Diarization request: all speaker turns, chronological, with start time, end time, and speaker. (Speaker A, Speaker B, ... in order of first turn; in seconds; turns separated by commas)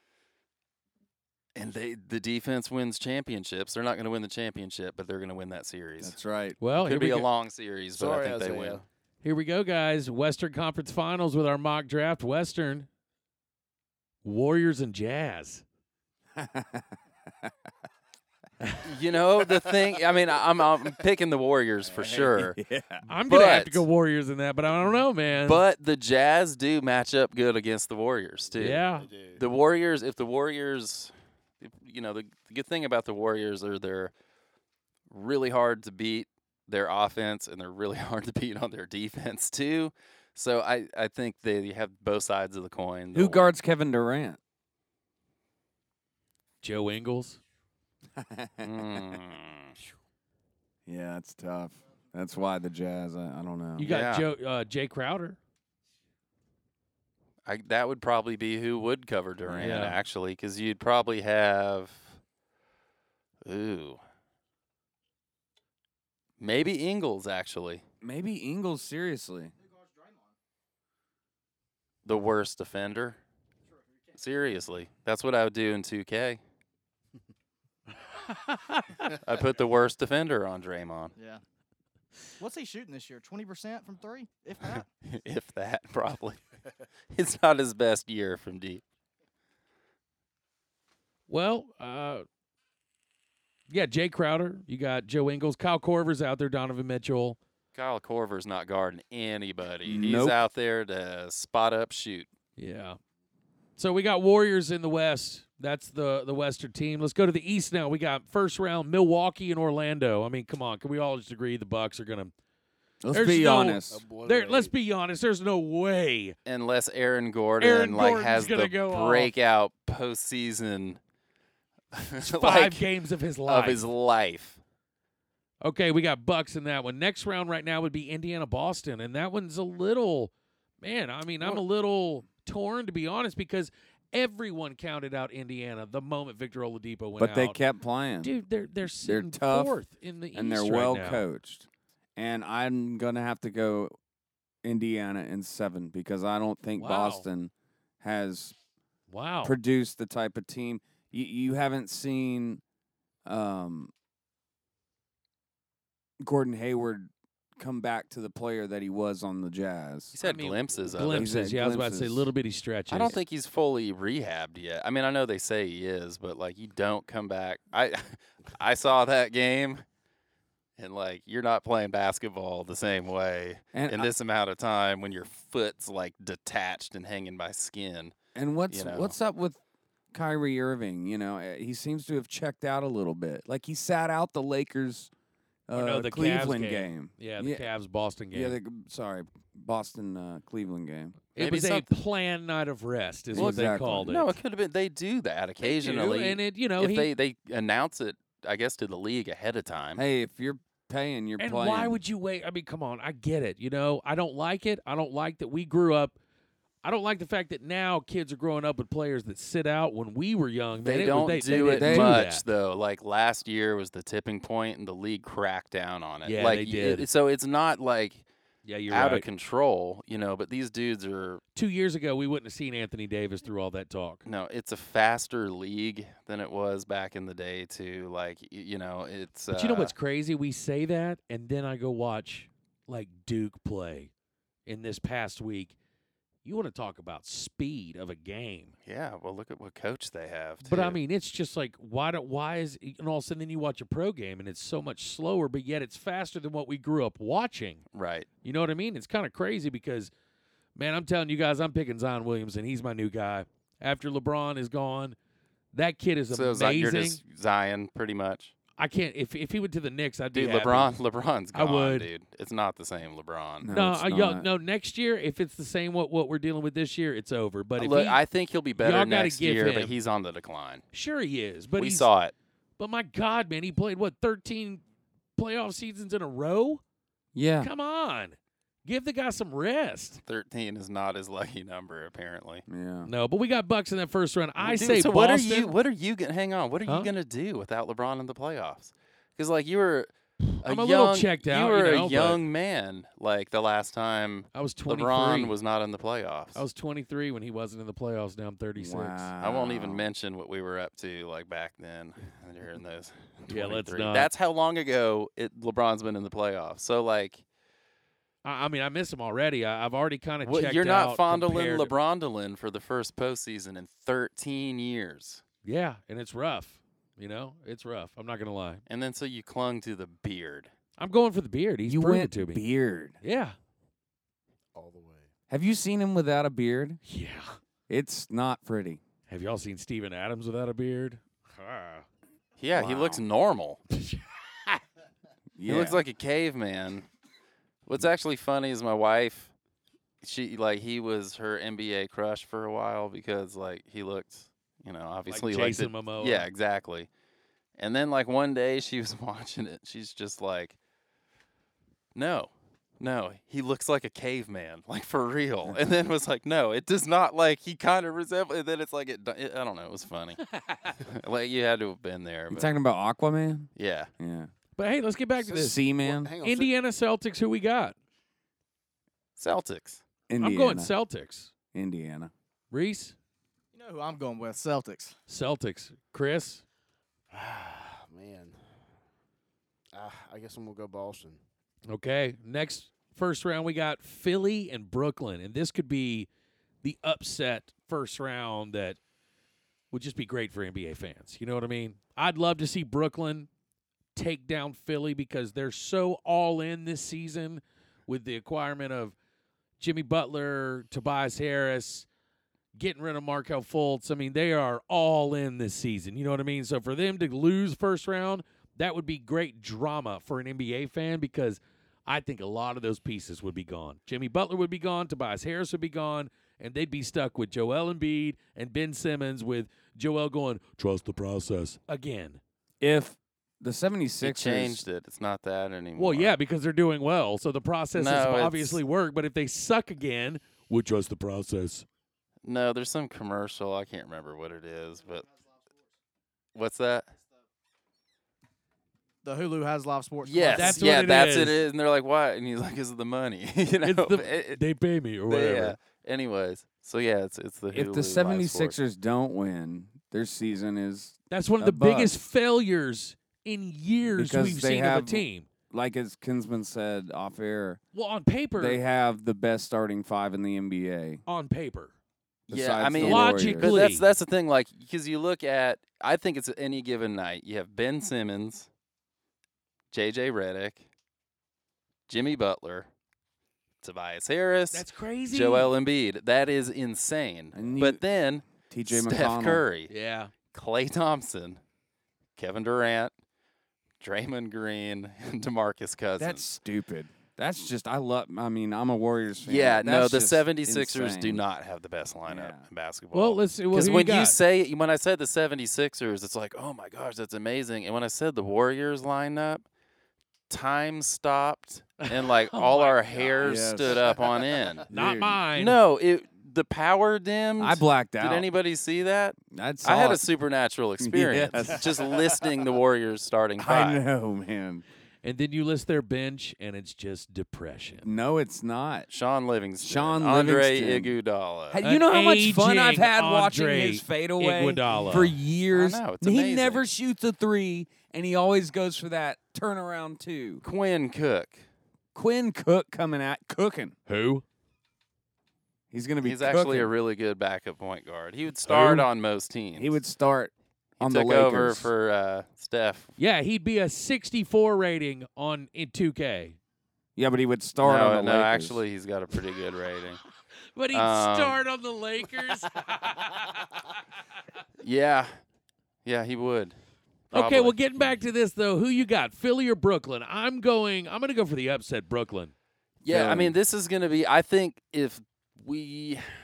Speaker A: 1.5-6.2, Speaker B: 6.0-6.6, Speaker C: 6.6-7.2, Speaker A: 6.8-8.8, Speaker D: 7.9-8.8, Speaker C: 9.2-12.9, Speaker C: 14.2-15.6, Speaker B: 16.4-17.5, Speaker A: 18.8-22.6, Speaker B: 22.3-23.0, Speaker C: 23.1-25.6, Speaker A: 23.3-23.8, Speaker A: 25.4-34.1, Speaker C: 28.6-29.1, Speaker D: 28.6-29.4, Speaker A: 35.1-43.5, Speaker B: 43.1-44.4, Speaker C: 46.6-47.4, Speaker B: 48.1-49.2, Speaker A: 48.6-49.7, Speaker B: 50.9-53.9, Speaker C: 53.8-55.4, Speaker A: 53.8-54.3, Speaker A: 57.4-62.1, Speaker B: 59.4-59.9, Speaker C: 59.6-60.0, Speaker A: 63.4-64.0, Speaker A: 66.4-67.8, Speaker B: 68.0-69.5, Speaker E: 69.7-70.1, Speaker A: 72.0-73.2, Speaker A: 74.1-76.4, Speaker C: 78.2-79.0, Speaker A: 79.1-81.1, Speaker E: 82.4-84.8, Speaker A: 85.0-86.4, Speaker A: 87.1-88.8, Speaker C: 91.3-92.2, Speaker C: 93.7-97.4, Speaker A: 97.7-102.3, Speaker B: 99.8-100.4, Speaker C: 102.6-103.0, Speaker C: 103.8-112.3, Speaker B: 113.0-114.0, Speaker C: 113.1-116.3, Speaker D: 113.9-114.7, Speaker A: 116.5-121.0, Speaker C: 117.6-119.3, Speaker A: 121.9-122.8, Speaker C: 122.2-123.8, Speaker A: 123.5-124.6, Speaker C: 125.6-137.6, Speaker B: 137.2-138.3, Speaker C: 138.2-141.2, Speaker B: 138.8-139.8, Speaker B: 140.3-143.9, Speaker B: 144.6-148.5, Speaker C: 146.8-147.2, Speaker C: 149.1-149.6, Speaker B: 149.4-152.6, Speaker B: 153.2-153.9, Speaker B: 156.2-160.2, Speaker A: 160.1-161.3, Speaker C: 160.2-163.2, Speaker B: 161.0-162.3, Speaker A: 162.9-169.8, Speaker A: 170.8-178.1, Speaker B: 173.7-174.1, Speaker B: 178.3-179.6, Speaker A: 178.7-179.1, Speaker B: 180.1-185.1, Speaker B: 185.7-187.7, Speaker C: 185.7-188.6, Speaker B: 188.3-191.2, Speaker C: 191.3-194.3, Speaker A: 191.4-191.9, Speaker B: 193.3-194.1, Speaker A: 193.3-200.0, Speaker C: 195.6-197.1, Speaker B: 199.9-202.0, Speaker C: 201.4-206.2, Speaker C: 206.8-212.4, Speaker A: 210.8-218.2, Speaker B: 211.8-212.2, Speaker C: 216.2-217.1, Speaker C: 218.6-219.2, Speaker A: 218.9-221.4, Speaker C: 221.5-224.2, Speaker A: 224.2-229.9, Speaker C: 229.5-234.1, Speaker C: 234.7-235.7, Speaker C: 236.4-238.7, Speaker A: 238.8-241.0, Speaker C: 240.6-247.8, Speaker A: 247.9-248.3, Speaker C: 248.4-250.1, Speaker C: 250.8-255.2, Speaker C: 255.7-257.2, Speaker A: 256.3-258.5, Speaker C: 258.8-260.9, Speaker A: 260.3-263.7, Speaker C: 261.5-262.1, Speaker B: 263.6-264.5, Speaker C: 263.7-268.2, Speaker A: 267.8-270.8, Speaker C: 268.8-269.9, Speaker C: 270.9-272.1, Speaker A: 271.8-272.3, Speaker C: 272.8-274.8, Speaker C: 275.4-276.8, Speaker B: 277.3-277.7, Speaker C: 277.6-280.2, Speaker A: 280.2-282.6, Speaker B: 282.7-283.1, Speaker C: 283.1-285.7, Speaker A: 284.6-296.6, Speaker C: 286.9-287.1, Speaker C: 290.6-292.4, Speaker C: 294.5-295.5, Speaker C: 296.5-299.3, Speaker B: 298.8-300.1, Speaker A: 299.4-307.4, Speaker C: 303.5-304.3, Speaker C: 308.4-311.9, Speaker A: 310.4-315.4, Speaker C: 315.6-318.8, Speaker A: 318.9-320.7, Speaker C: 321.0-322.6, Speaker B: 321.9-323.2, Speaker C: 323.2-323.6, Speaker D: 324.7-325.3, Speaker B: 325.5-327.0, Speaker C: 327.0-327.6, Speaker B: 327.9-329.0, Speaker C: 329.3-332.0, Speaker A: 332.6-333.8, Speaker B: 332.7-333.2, Speaker C: 333.9-334.8, Speaker B: 335.6-336.0, Speaker A: 335.6-337.1, Speaker A: 337.9-339.5, Speaker A: 340.2-347.1, Speaker C: 345.3-346.5, Speaker A: 347.8-350.8, Speaker A: 352.1-360.4, Speaker C: 360.4-361.0, Speaker A: 361.0-362.7, Speaker B: 362.5-364.5, Speaker A: 363.8-364.1, Speaker C: 364.8-365.8, Speaker B: 365.4-366.3, Speaker D: 365.6-366.7, Speaker C: 366.4-367.9, Speaker A: 369.4-370.0, Speaker B: 370.3-370.9, Speaker C: 370.4-371.5, Speaker B: 371.7-372.3, Speaker C: 372.7-373.1, Speaker E: 373.7-375.1, Speaker C: 375.3-376.6, Speaker D: 377.3-378.6, Speaker D: 379.9-381.4, Speaker C: 381.9-386.3, Speaker C: 386.8-389.0, Speaker C: 389.9-393.5, Speaker C: 394.1-399.1, Speaker C: 399.8-402.1, Speaker C: 402.7-422.4, Speaker B: 422.8-424.8, Speaker A: 424.2-426.3, Speaker C: 425.9-431.9, Speaker A: 427.9-428.8, Speaker A: 432.4-435.3, Speaker A: 436.5-437.1, Speaker E: 439.2-440.8, Speaker A: 440.2-444.6, Speaker C: 440.5-441.6, Speaker C: 443.8-445.7, Speaker A: 445.3-448.8, Speaker B: 447.7-452.1, Speaker C: 451.3-455.5, Speaker B: 454.1-457.8, Speaker C: 457.9-458.8, Speaker B: 458.6-461.2, Speaker C: 461.2-461.9, Speaker A: 462.5-468.7, Speaker B: 462.5-463.7, Speaker C: 463.0-464.0, Speaker A: 469.9-470.8, Speaker A: 472.1-472.9, Speaker A: 473.8-479.9, Speaker C: 474.7-475.7, Speaker B: 477.5-478.0, Speaker B: 478.7-479.6, Speaker C: 479.9-480.3, Speaker A: 480.5-481.6, Speaker A: 482.4-483.1, Speaker A: 484.0-486.4, Speaker B: 486.2-491.4, Speaker A: 489.4-499.6, Speaker B: 492.2-492.6, Speaker C: 493.1-494.4, Speaker A: 500.5-504.9, Speaker C: 502.0-503.7, Speaker B: 503.4-504.1, Speaker B: 504.9-505.4, Speaker C: 504.9-505.8, Speaker A: 505.6-514.0, Speaker B: 507.6-508.5, Speaker B: 509.5-510.2, Speaker B: 511.0-512.1, Speaker B: 513.6-514.8, Speaker C: 515.2-518.1, Speaker B: 518.0-519.1, Speaker A: 519.1-521.8, Speaker B: 519.8-521.1, Speaker B: 521.7-530.6, Speaker C: 521.8-525.4, Speaker A: 525.7-526.8, Speaker A: 530.6-531.6, Speaker B: 532.1-533.9, Speaker C: 534.1-534.4, Speaker B: 535.9-536.9, Speaker A: 536.2-539.9, Speaker B: 538.7-539.0, Speaker B: 539.8-541.9, Speaker A: 541.0-543.1, Speaker C: 543.2-546.6, Speaker B: 547.1-548.8, Speaker A: 547.8-550.2, Speaker C: 550.8-553.9, Speaker A: 550.9-551.6, Speaker A: 554.8-555.3, Speaker A: 556.0-556.8, Speaker A: 557.3-557.8, Speaker C: 557.3-562.5, Speaker A: 563.0-566.3, Speaker B: 563.0-563.5